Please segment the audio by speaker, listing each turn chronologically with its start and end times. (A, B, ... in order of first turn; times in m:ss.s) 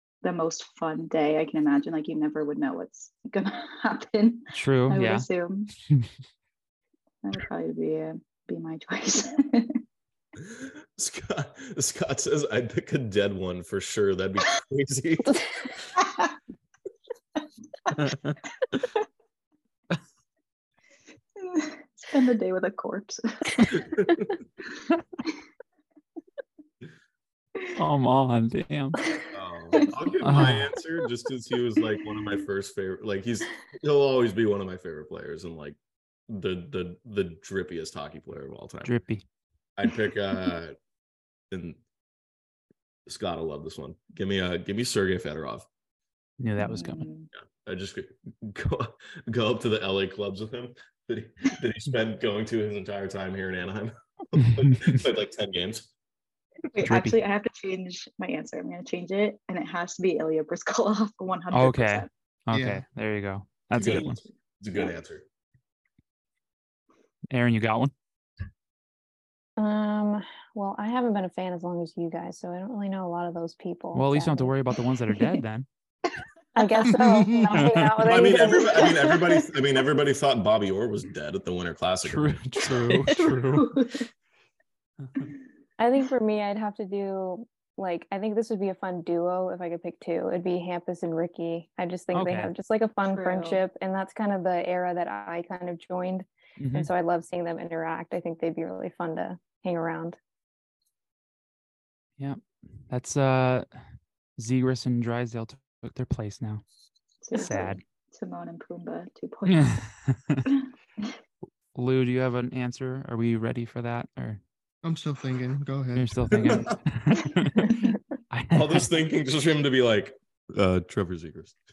0:00.2-0:05.7 A
0:04.5-0:05.3 B
0:07.2-0:09.8 A
0:10.4-0:15.7 C
0:16.0-0:16.4 A
0:17.9-0:18.8 B
0:21.4-0:23.8 A
0:23.7-0:24.4 C
0:27.7-0:29.1 B
0:29.3-0:38.9 C
0:30.2-0:30.7 B
0:38.8-0:39.2 B
0:39.8-0:40.8 C
0:41.5-0:41.8 C
0:43.1-0:45.7 C
0:46.4-0:47.1 B
0:46.6-0:47.3 A
0:47.4-0:55.9 C
0:54.4-0:55.0 B
0:56.7-1:02.1 A
0:56.8-0:57.2 B
1:01.5-1:04.2 B
1:02.5-1:02.8 D
1:03.7-1:05.2 C
1:03.8-1:04.2 A
1:07.3-1:07.9 B
1:09.6-1:14.6 E
1:13.9-1:15.7 B
1:16.6-1:19.1 E
1:16.9-1:17.5 D
1:17.5-1:18.3 B
1:18.0-1:22.4 C
1:18.1-1:19.5 A
1:22.0-1:23.9 B
1:23.1-1:24.1 A
1:25.8-1:40.2 E
1:32.1-1:32.5 B
1:33.1-1:33.6 A
1:36.6-1:36.9 B
1:42.2-1:43.8 B
1:44.4-1:46.6 B
1:47.2-1:49.7 A
1:47.4-1:47.8 B
1:49.5-1:50.5 B
1:50.5-1:51.1 A
1:51.8-1:54.4 B
1:54.8-1:56.6 D
1:56.0-1:58.9 B
1:56.4-1:56.8 C
1:58.5-2:01.6 C